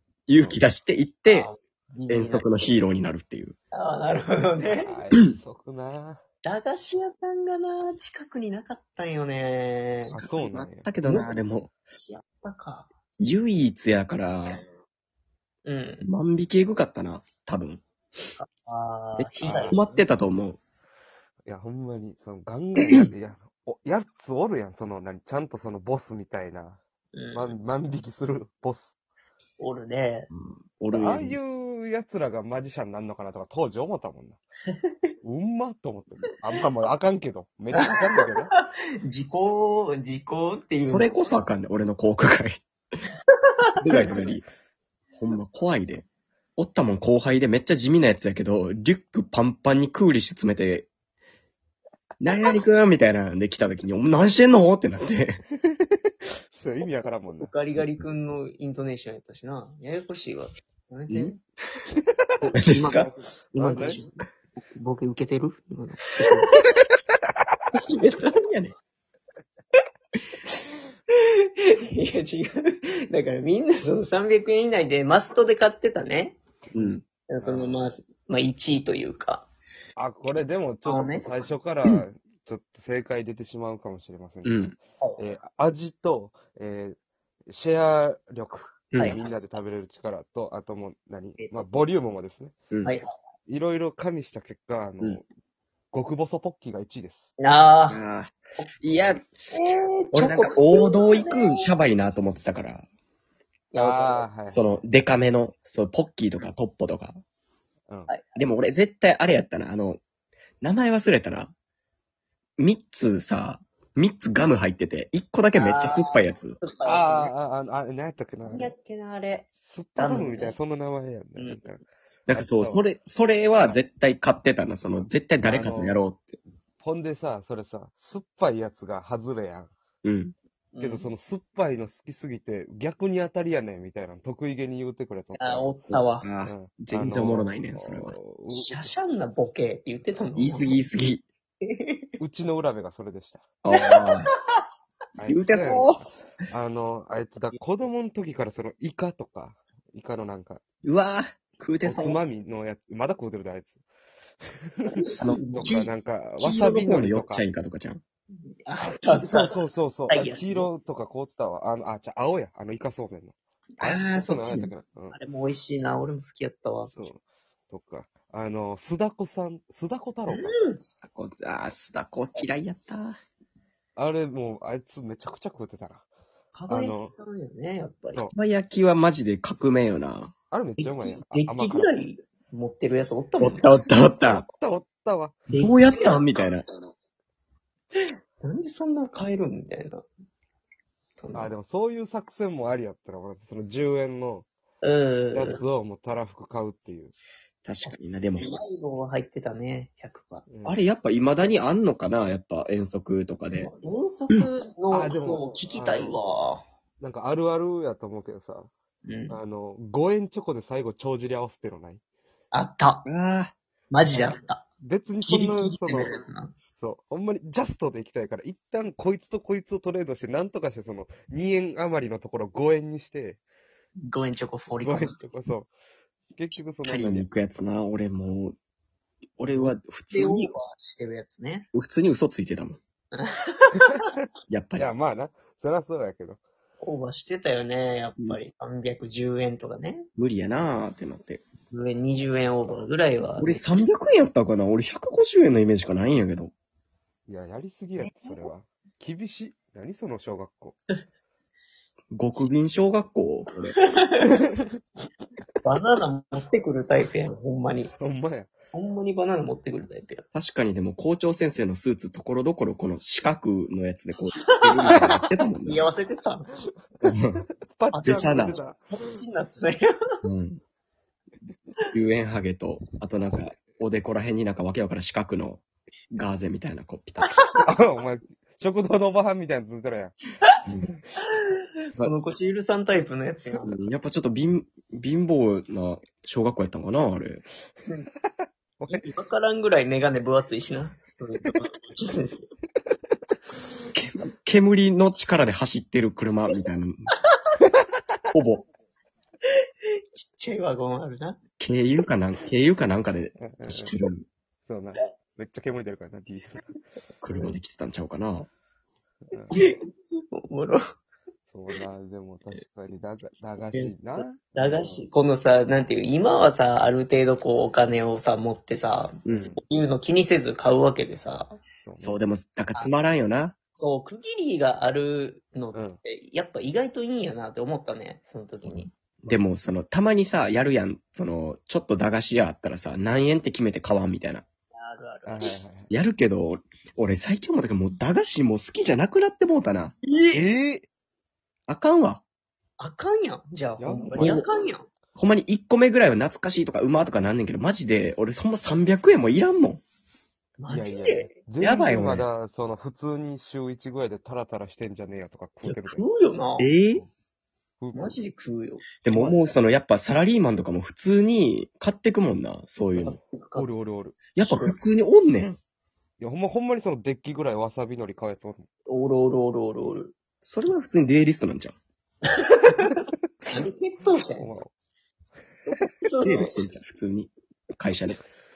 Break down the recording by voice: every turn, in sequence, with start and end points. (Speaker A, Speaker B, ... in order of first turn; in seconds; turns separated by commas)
Speaker A: 0.3-1.5, Speaker B: 1.3-2.5, Speaker A: 2.1-3.5, Speaker B: 3.7-5.0, Speaker C: 4.6-6.2, Speaker B: 6.5-10.2, Speaker C: 10.0-10.9, Speaker A: 10.1-11.7, Speaker B: 11.0-11.3, Speaker B: 11.9-12.9, Speaker A: 13.2-14.6, Speaker B: 15.7-16.1, Speaker A: 16.0-17.8, Speaker B: 18.4-20.0, Speaker A: 19.2-20.6, Speaker C: 19.4-19.8, Speaker C: 21.5-26.8, Speaker B: 27.1-27.5, Speaker C: 27.3-28.9, Speaker B: 29.6-30.3, Speaker A: 30.3-31.4, Speaker C: 30.9-34.4, Speaker C: 35.2-38.5, Speaker B: 37.7-41.1, Speaker A: 40.8-42.6, Speaker A: 43.8-44.5, Speaker A: 45.2-46.1, Speaker A: 46.6-50.9, Speaker A: 52.2-55.4, Speaker C: 56.5-57.5, Speaker B: 57.4-61.4, Speaker A: 61.1-61.4, Speaker C: 62.0-62.5, Speaker A: 62.5-63.1, Speaker B: 62.5-66.7, Speaker C: 63.5-64.0, Speaker B: 67.8-68.3, Speaker A: 68.2-68.7, Speaker B: 71.5-76.4, Speaker A: 76.8-77.0, Speaker B: 77.3-79.5, Speaker C: 77.4-77.8, Speaker C: 80.0-87.0, Speaker B: 80.9-81.5, Speaker A: 84.5-84.7, Speaker C: 87.5-92.6, Speaker A: 88.9-89.2, Speaker B: 91.4-91.9, Speaker C: 93.5-95.2, Speaker C: 95.9-97.3, Speaker B: 97.4-98.0, Speaker A: 97.9-99.2, Speaker B: 99.5-101.7, Speaker A: 100.1-102.9, Speaker B: 103.7-104.3, Speaker C: 103.8-104.6, Speaker A: 104.5-107.2, Speaker A: 108.4-110.0, Speaker A: 110.6-111.5, Speaker A: 112.6-116.6, Speaker B: 115.6-117.3, Speaker C: 116.8-118.7, Speaker B: 118.5-120.6, Speaker C: 119.7-122.8, Speaker B: 121.4-121.6, Speaker A: 122.3-126.3, Speaker C: 125.4-126.0, Speaker C: 126.8-129.7, Speaker A: 130.0-130.3, Speaker B: 130.7-131.1, Speaker C: 130.8-135.7, Speaker B: 135.4-136.3, Speaker A: 135.9-138.2, Speaker C: 136.4-138.9, Speaker B: 138.5-140.8, Speaker A: 140.4-141.2, Speaker B: 141.6-142.1, Speaker C: 142.2-143.5, Speaker A: 143.6-144.3, Speaker B: 143.7-144.2, Speaker C: 145.2-150.6, Speaker A: 145.3-146.0, Speaker A: 150.8-152.1, Speaker C: 151.8-153.8, Speaker C: 154.8-157.4, Speaker B: 155.0-155.8, Speaker A: 155.2-158.0, Speaker B: 158.4-160.7, Speaker C: 159.1-165.2, Speaker A: 163.8-164.7, Speaker B: 165.1-167.1, Speaker C: 166.9-170.6, Speaker B: 170.3-171.0, Speaker A: 171.0-173.2, Speaker C: 174.0-176.1, Speaker B: 176.5-178.2, Speaker C: 176.7-177.1, Speaker A: 178.3-180.3, Speaker C: 180.5-181.9, Speaker B: 180.8-183.7, Speaker A: 183.4-184.5, Speaker C: 184.2-185.4, Speaker B: 185.5-186.2, Speaker A: 185.5-186.7, Speaker B: 188.4-190.1, Speaker B: 191.2-191.6, Speaker C: 191.3-194.5, Speaker B: 194.8-195.6, Speaker C: 195.3-197.2, Speaker A: 197.7-198.5, Speaker B: 197.9-200.5, Speaker C: 200.5-200.8, Speaker A: 200.7-203.7, Speaker B: 203.6-206.6, Speaker C: 204.9-206.2, Speaker C: 207.0-208.7, Speaker B: 209.1-209.4, Speaker C: 209.3-212.0, Speaker B: 212.5-213.1, Speaker A: 213.1-213.5, Speaker B: 213.9-214.7, Speaker C: 214.8-216.2, Speaker B: 215.2-216.5, Speaker C: 216.8-223.4, Speaker B: 224.1-225.2, Speaker C: 224.8-225.7, Speaker C: 226.3-227.3, Speaker A: 226.8-228.6, Speaker A: 229.4-230.5, Speaker B: 230.1-231.7, Speaker A: 231.7-232.8, Speaker B: 233.1-234.0, Speaker A: 234.5-234.9, Speaker C: 234.8-236.4, Speaker B: 236.8-240.1, Speaker A: 240.2-241.4, Speaker B: 241.7-243.7, Speaker A: 243.4-246.5, Speaker C: 247.3-250.8, Speaker B: 248.0-248.5, Speaker A: 252.1-253.7, Speaker B: 253.8-254.3, Speaker B: 255.6-257.9, Speaker C: 258.0-258.5, Speaker B: 258.7-260.2, Speaker A: 260.3-265.9, Speaker B: 264.5-265.0, Speaker B: 265.6-266.5, Speaker C: 267.0-269.2, Speaker A: 267.1-267.4, Speaker B: 267.9-270.1, Speaker A: 268.0-268.6, Speaker A: 270.2-270.6, Speaker A: 271.9-277.3, Speaker B: 277.3-277.6, Speaker C: 277.6-280.2, Speaker B: 281.5-283.8, Speaker A: 283.6-287.4, Speaker C: 288.8-289.1, Speaker B: 288.9-292.4, Speaker A: 293.9-297.1, Speaker A: 298.3-298.6, Speaker B: 300.1-301.4, Speaker A: 301.6-304.2, Speaker C: 303.4-303.9, Speaker C: 304.7-306.6, Speaker A: 307.2-308.5, Speaker B: 309.5-310.8, Speaker C: 311.5-315.1, Speaker B: 314.5-321.6, Speaker C: 319.3-319.6, Speaker C: 321.8-322.2, Speaker A: 322.0-323.6, Speaker B: 323.7-328.9, Speaker C: 325.7-326.0, Speaker A: 329.2-334.4, Speaker B: 334.7-335.5, Speaker C: 335.2-335.9, Speaker A: 335.9-339.9, Speaker B: 340.0-340.4, Speaker C: 340.3-340.9, Speaker A: 341.7-342.2, Speaker B: 342.8-344.9, Speaker C: 343.8-344.5, Speaker A: 344.2-344.4, Speaker A: 345.2-349.8, Speaker B: 350.6-351.3, Speaker C: 350.7-356.1, Speaker A: 351.6-352.3, Speaker B: 355.7-356.7, Speaker A: 356.6-357.0, Speaker C: 357.8-358.2, Speaker B: 357.9-359.4, Speaker A: 359.0-363.2, Speaker B: 363.0-363.7, Speaker C: 363.6-364.2, Speaker A: 364.4-365.6, Speaker B: 364.4-364.8, Speaker C: 366.2-368.7, Speaker B: 368.9-370.1, Speaker A: 370.4-371.8, Speaker B: 372.3-374.5, Speaker C: 374.4-374.7, Speaker B: 375.7-376.5, Speaker A: 376.2-378.2